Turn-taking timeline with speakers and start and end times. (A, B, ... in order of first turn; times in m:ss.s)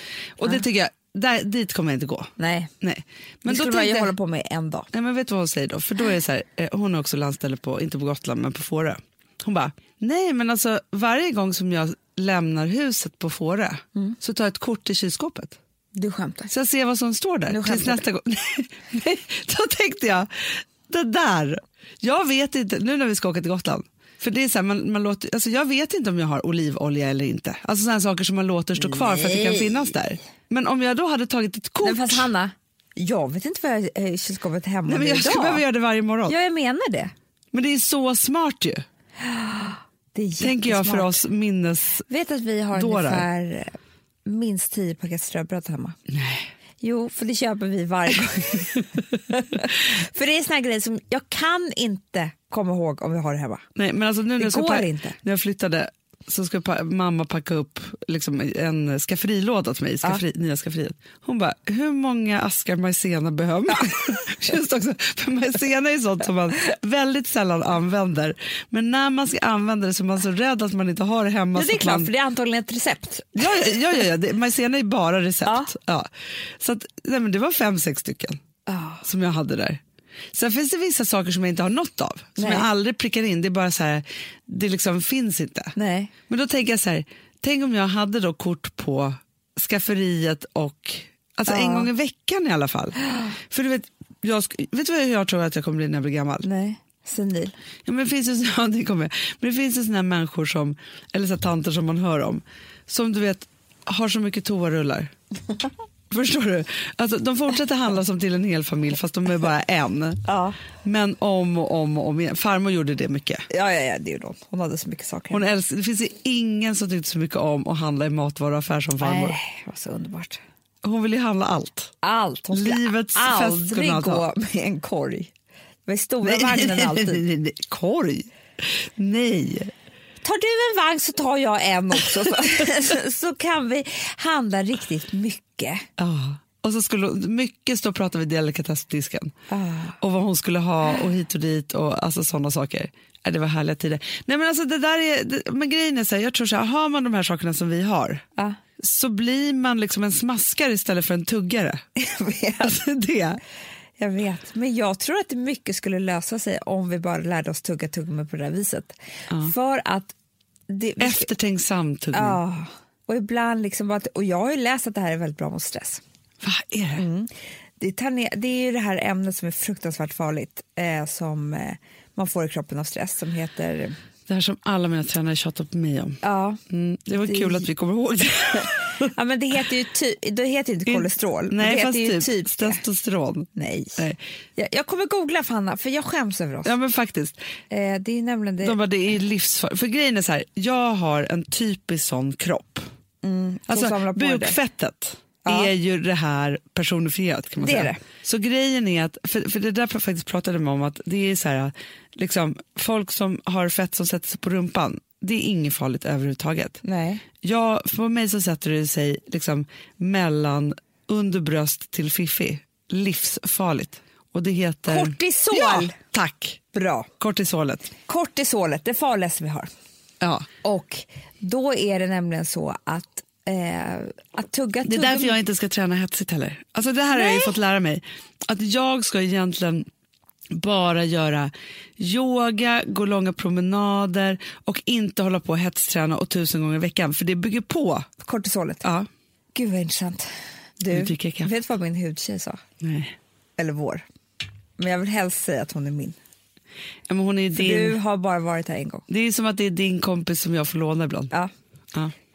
0:00.4-0:04.1 A
0:02.4-0:02.7 B
0:03.4-0:04.9 B
0:04.9-0:15.6 A
0:15.9-0:16.5 B
0:16.5-0:32.3 A
0:17.5-0:18.0 B
0:28.8-0:29.7 B
0:31.8-0:35.6 B
0:34.9-0:36.4 A
0:36.3-0:37.1 B
0:37.5-0:38.8 A
0:39.2-0:41.2 B
0:40.4-0:42.1 A
0:42.1-0:43.7 B
0:42.7-0:43.2 A
0:44.2-0:46.0 B
0:46.1-0:46.5 A
0:46.8-0:53.6 B
0:53.8-1:12.1 A
0:54.4-0:55.2 B
1:11.5-1:13.8 B
1:13.4-1:18.4 A
1:18.7-1:19.0 B
1:19.0-1:19.8 A
1:20.3-1:25.8 A
1:22.4-1:22.6 B
1:25.8-1:26.1 B
1:26.3-1:36.5 A
1:31.5-1:31.9 B
1:36.4-1:37.5 B
1:37.8-1:45.1 A
1:46.1-1:50.2 A
1:50.3-1:50.6 B
1:50.8-1:53.4 A
1:53.5-1:55.5 B
1:55.3-1:59.4 A
1:59.0-2:00.4 B
2:00.8-2:01.9 A
2:02.0-2:05.3 B
2:02.5-2:04.2 A
2:05.9-2:07.2 B
2:06.2-2:09.7 A
2:10.2-2:15.8 B
2:16.0-2:19.3 A
2:19.5-2:20.0 B
2:20.0-2:28.2 A
2:28.8-2:31.8 A
2:32.0-2:32.8 B
2:32.6-2:33.4 A
2:34.0-2:40.1 B
2:40.7-2:41.3 B
2:41.0-2:42.4 A
2:42.1-2:46.0 B
2:46.4-2:47.0 A
2:47.0-2:54.0 B
2:54.3-2:59.1 A
2:56.2-2:56.6 B
2:57.2-2:57.6 B
2:59.0-3:02.8 B
3:00.9-3:04.2 A
3:03.6-3:04.0 B
3:04.6-3:06.7 B
3:06.6-3:07.4 A
3:07.7-3:08.8 B
3:08.6-3:12.9 A
3:13.2-3:14.6 B
3:13.7-3:26.8 A
3:15.4-3:15.7 B
3:17.6-3:18.0 B
3:26.8-3:27.2 B
3:27.4-3:36.6 A
3:34.9-3:35.9 B
3:36.7-3:37.1 B
3:37.2-3:37.9 A
3:38.1-3:39.7 B
3:40.2-3:40.5 A
3:40.6-3:45.4 B
3:44.8-3:49.9 A
3:47.1-3:47.5 B
3:50.5-3:58.1 A
3:58.2-3:58.8 B
3:58.8-3:59.1 A
3:59.5-4:02.6 B
4:00.9-4:01.5 A
4:02.8-4:03.1 A
4:03.6-4:04.0 B
4:04.8-4:06.2 B
4:07.1-4:08.0 A
4:07.5-4:09.0 B
4:09.1-4:11.3 A